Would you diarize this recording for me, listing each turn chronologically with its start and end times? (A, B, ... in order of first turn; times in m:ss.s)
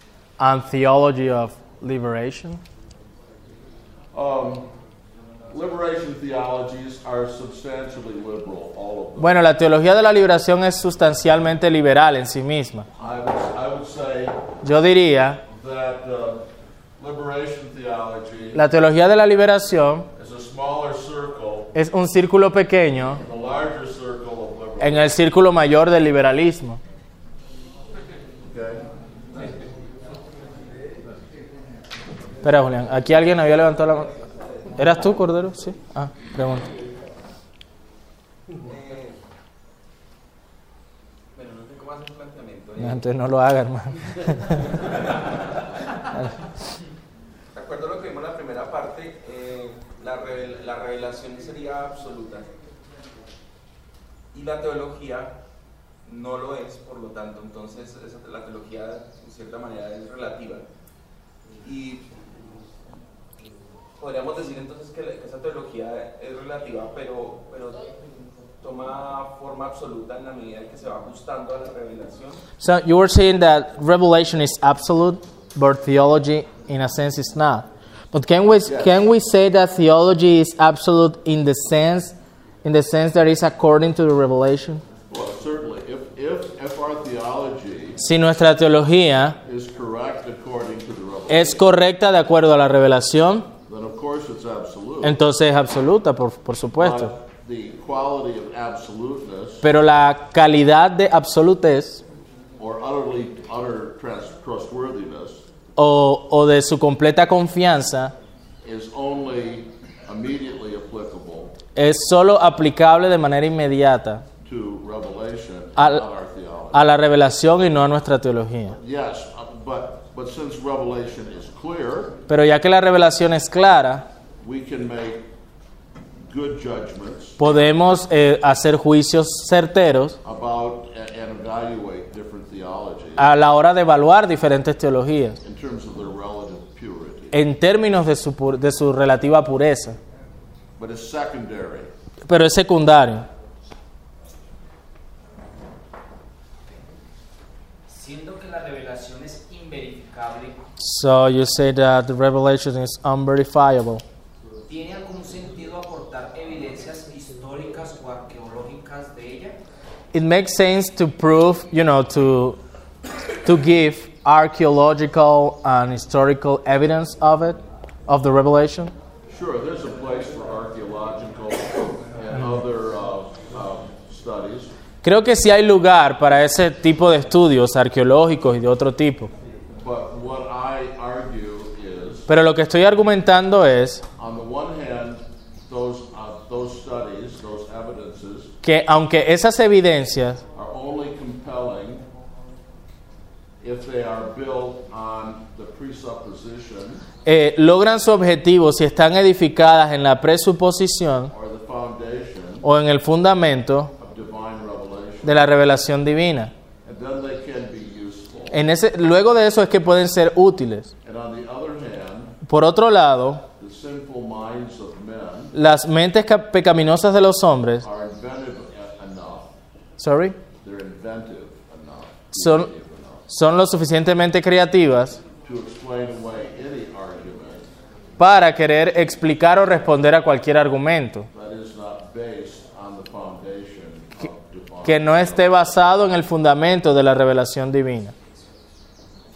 0:00.4-0:02.6 A
0:04.1-0:04.7 B
0:05.5-0:09.4 B
0:09.2-0:12.9 A
0:13.0-0:14.4 B
0:14.6-0:15.4 A
0:15.5-0:16.4 B
0:17.0-0:18.6 B
0:18.5-0:20.1 A
0:20.1-0:21.7 B
0:21.7-0:23.2 A
0:23.2-0:25.2 B
0:24.8-0:26.8 A
0:28.4-0:28.8 B
0:32.4-0:34.1 A
0:34.7-0:36.7 A
0:38.6-0:39.2 C
0:41.3-0:43.0 C
0:42.8-0:44.7 A
0:44.7-0:45.2 C
0:47.5-0:52.5 C
0:54.3-0:55.3 C
0:56.0-1:00.6 C
1:01.6-1:02.0 C
1:04.0-1:08.0 C
1:08.6-1:12.4 C
1:12.6-1:24.8 A
1:18.6-1:19.0 B
1:25.1-1:28.0 B
1:28.0-1:29.4 A
1:29.4-1:31.6 B
1:31.3-1:33.5 A
1:33.6-1:35.2 B
1:35.0-1:37.1 A
1:36.8-1:39.6 B
1:39.6-1:42.0 A
1:42.6-1:45.4 B
1:45.8-1:48.1 A
1:48.6-1:51.6 B
1:51.8-1:54.2 A
1:54.4-1:56.9 B
1:55.8-1:56.0 A
1:56.7-1:58.8 A
1:58.7-2:02.2 B
2:02.3-2:04.1 A
2:04.4-2:05.2 B
2:06.3-2:07.4 B
2:07.4-2:10.2 A
2:10.2-2:13.3 B
2:13.2-2:15.4 A
2:15.4-2:17.4 B
2:17.3-2:20.0 A
2:20.8-2:21.9 B
2:22.2-2:23.3 A
2:27.9-2:30.6 D
2:30.8-2:34.0 A
2:34.7-2:39.6 D
2:40.1-2:42.6 A
2:43.4-2:48.9 A
2:49.3-2:54.7 B
2:55.0-2:59.3 A
2:59.8-3:02.3 B
3:02.3-3:04.0 A
3:04.2-3:08.5 B
3:08.6-3:10.4 A
3:10.5-3:12.0 B
3:13.6-3:17.0 B
3:17.2-3:21.3 A
3:21.3-3:22.7 B
3:22.6-3:23.9 A
3:24.0-3:25.4 B
3:25.2-3:26.5 A
3:26.8-3:28.6 B
3:28.5-3:30.9 A
3:31.0-3:32.4 B
3:32.4-3:33.4 A
3:33.6-3:35.5 B
3:35.5-3:37.8 A
3:37.8-3:39.5 B
3:40.0-3:40.4 A
3:40.6-3:43.2 B
3:42.3-3:42.7 A
3:43.3-3:45.2 A
3:45.4-3:47.7 B
3:48.2-3:51.3 A
3:51.3-3:55.7 B
3:54.8-3:58.1 A